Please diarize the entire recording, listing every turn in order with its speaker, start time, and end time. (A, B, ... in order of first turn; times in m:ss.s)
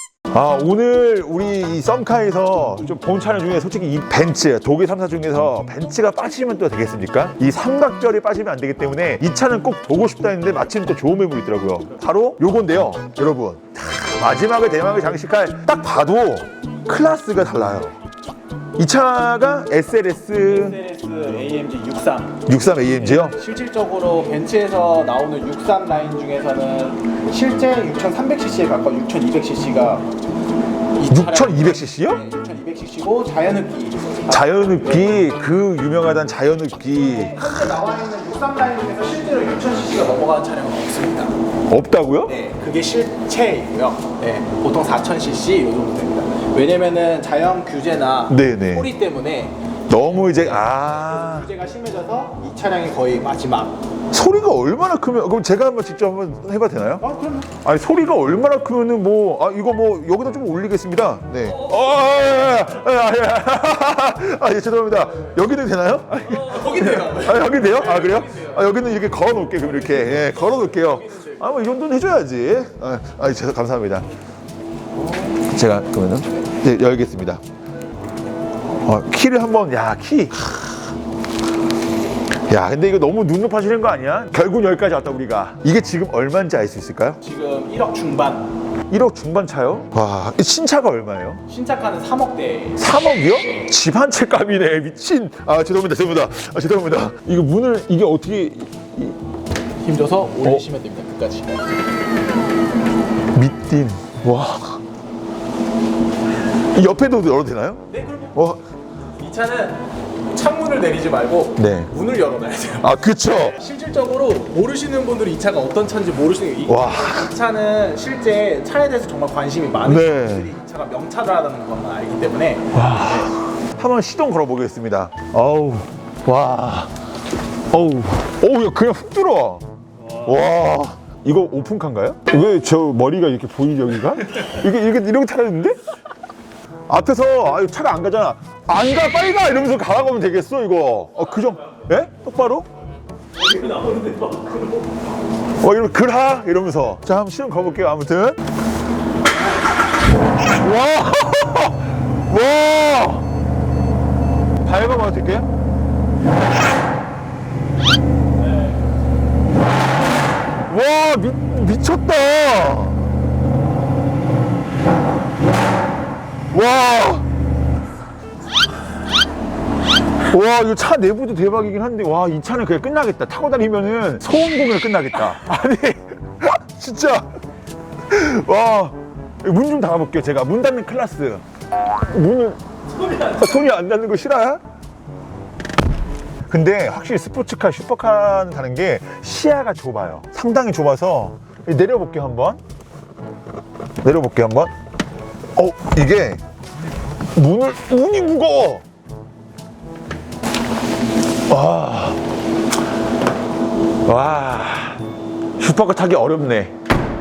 0:00.3-0:18.0 A
0:18.8-0:20.8 A
0:20.3-0:30.1 B
0:22.5-0:23.4 A
0:31.0-0:35.3 B
0:31.1-0:32.2 A
0:34.3-0:37.6 A
0:36.8-0:41.4 B
0:41.7-0:42.4 A
0:42.2-0:53.8 B
0:48.3-0:48.9 A
0:49.9-0:51.5 A
0:54.1-0:57.0 A
0:57.0-0:57.6 B
0:57.6-1:14.1 A
1:06.2-1:08.8 B
1:09.4-1:11.8 B
1:15.4-1:17.4 A
1:18.8-1:20.7 A
1:22.5-1:27.2 A
1:27.2-1:28.5 B
1:28.9-1:31.4 A
1:31.5-1:32.9 B
1:32.8-1:39.2 A
1:33.4-1:33.7 B
1:39.8-1:41.8 B
1:43.3-1:44.8 A
1:46.7-1:48.6 A
1:47.9-1:48.4 B
1:49.2-2:03.3 B
1:51.6-1:51.9 A
1:52.8-1:53.6 A
1:56.7-1:57.3 A
1:59.8-2:00.5 A
2:02.7-2:06.9 A
2:07.7-2:09.6 A
2:10.2-2:15.8 A
2:16.9-2:22.7 A
2:23.5-2:24.4 B
2:25.6-2:28.4 A
2:30.5-2:33.3 A
2:34.6-2:35.5 A
2:40.7-2:43.0 A
2:46.5-2:47.3 A
2:50.2-2:57.3 A
2:58.1-3:01.4 A
3:02.1-3:02.6 A
3:03.2-3:04.6 A
3:06.5-3:12.6 A
3:14.0-3:14.7 A
3:15.6-3:16.4 A
3:17.4-3:18.8 A
3:21.5-3:22.2 A
3:24.0-3:25.0 A
3:25.6-3:26.7 A